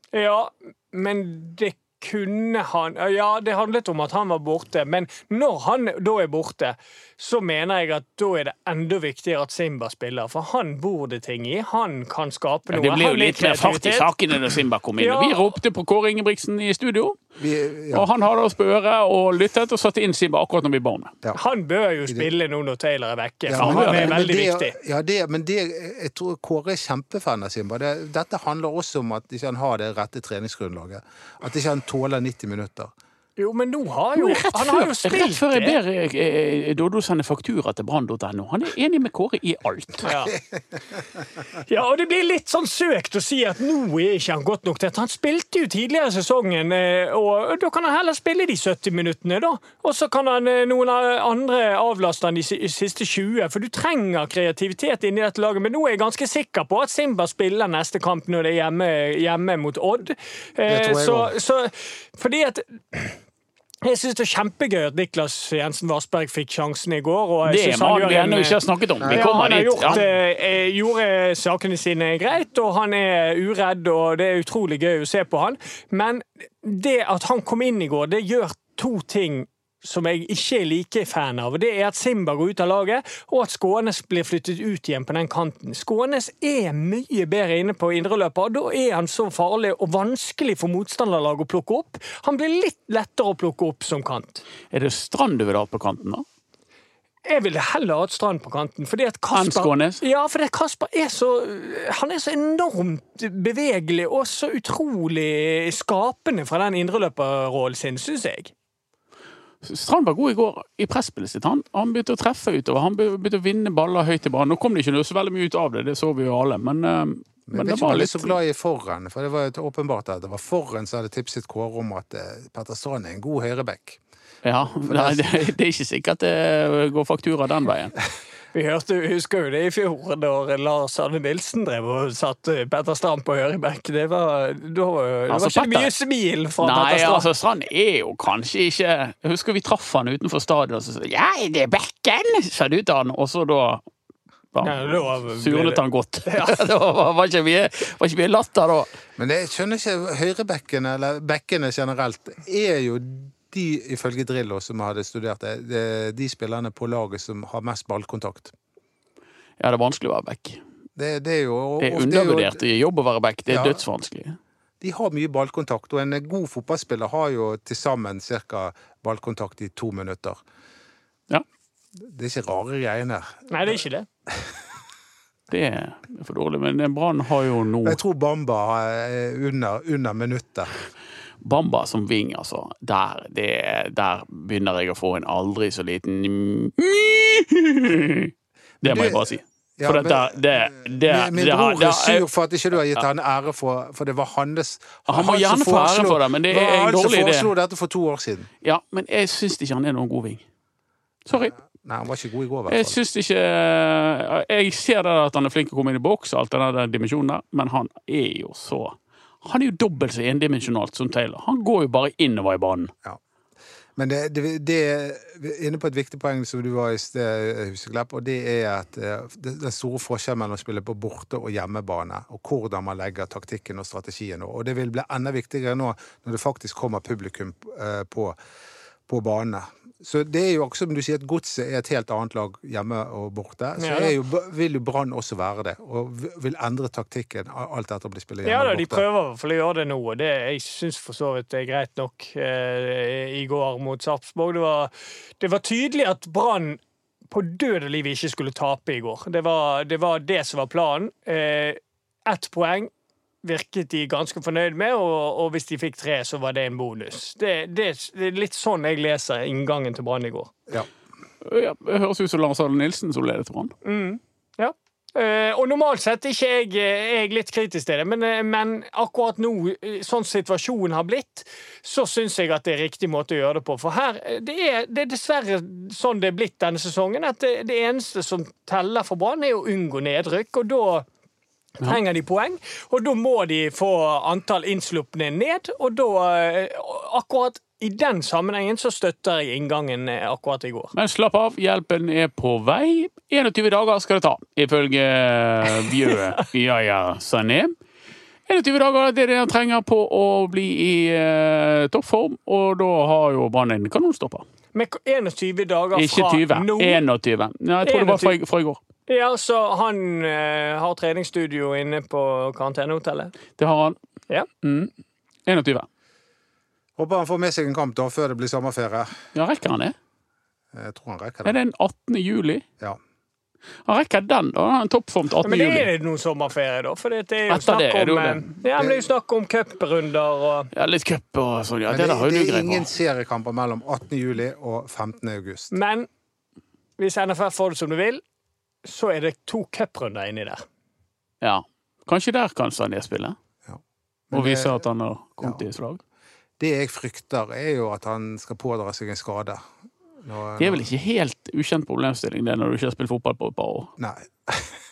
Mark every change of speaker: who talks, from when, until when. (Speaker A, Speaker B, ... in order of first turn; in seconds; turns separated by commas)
Speaker A: 0.1-14.1, Speaker B: 12.7-17.2, Speaker A: 15.0-15.6, Speaker C: 17.4-18.1, Speaker B: 17.9-21.1, Speaker A: 21.3-24.8, Speaker C: 23.5-32.9, Speaker B: 23.6-24.2, Speaker A: 33.4-35.8, Speaker B: 34.1-40.1, Speaker A: 40.0-40.4, Speaker A: 41.6-63.2, Speaker C: 60.7-61.3, Speaker A: 63.8-68.6, Speaker B: 67.5-70.0, Speaker C: 69.0-69.2, Speaker A: 69.1-94.4, Speaker B: 94.7-96.2, Speaker A: 97.3-108.5, Speaker B: 99.3-100.0, Speaker B: 109.6-118.4, Speaker C: 117.5-124.0, Speaker B: 124.4-128.0, Speaker C: 124.8-125.5, Speaker A: 128.5-137.3, Speaker B: 135.3-135.9, Speaker B: 136.6-143.8, Speaker B: 144.5-148.9, Speaker A: 144.6-146.6, Speaker C: 149.2-158.5, Speaker B: 159.6-160.6, Speaker C: 160.9-162.6, Speaker B: 161.8-164.4, Speaker C: 163.5-163.8, Speaker C: 164.8-170.4, Speaker C: 171.9-173.4, Speaker A: 173.5-174.1, Speaker B: 175.5-178.0, Speaker C: 177.8-180.7, Speaker B: 181.4-192.2, Speaker C: 188.8-198.5, Speaker B: 195.1-197.5, Speaker B: 198.6-200.4, Speaker B: 201.3-201.5, Speaker C: 201.3-203.0, Speaker B: 202.7-212.9, Speaker C: 213.9-228.4, Speaker C: 229.1-239.1, Speaker A: 233.8-234.1, Speaker A: 238.4-252.9, Speaker A: 253.4-260.5, Speaker B: 261.4-263.7, Speaker A: 263.8-281.1, Speaker A: 281.8-290.9, Speaker B: 290.9-297.8, Speaker A: 295.9-296.2, Speaker B: 298.5-304.4, Speaker A: 304.7-307.0, Speaker B: 305.9-308.8, Speaker A: 307.8-308.4, Speaker A: 309.1-313.3, Speaker B: 313.6-313.9, Speaker B: 314.6-314.9, Speaker B: 315.4-315.9, Speaker C: 317.0-319.1, Speaker B: 319.4-319.9, Speaker C: 320.7-321.6, Speaker B: 321.4-322.6, Speaker B: 323.9-325.9, Speaker A: 325.4-330.7, Speaker B: 327.5-328.6, Speaker B: 330.7-332.9, Speaker C: 331.9-335.7, Speaker A: 335.7-336.1, Speaker A: 337.0-338.2, Speaker A: 338.8-340.6, Speaker B: 341.4-343.4, Speaker C: 343.6-344.8, Speaker B: 344.3-346.0, Speaker C: 346.6-349.6, Speaker C: 350.2-350.9, Speaker B: 350.6-353.9, Speaker C: 354.0-354.8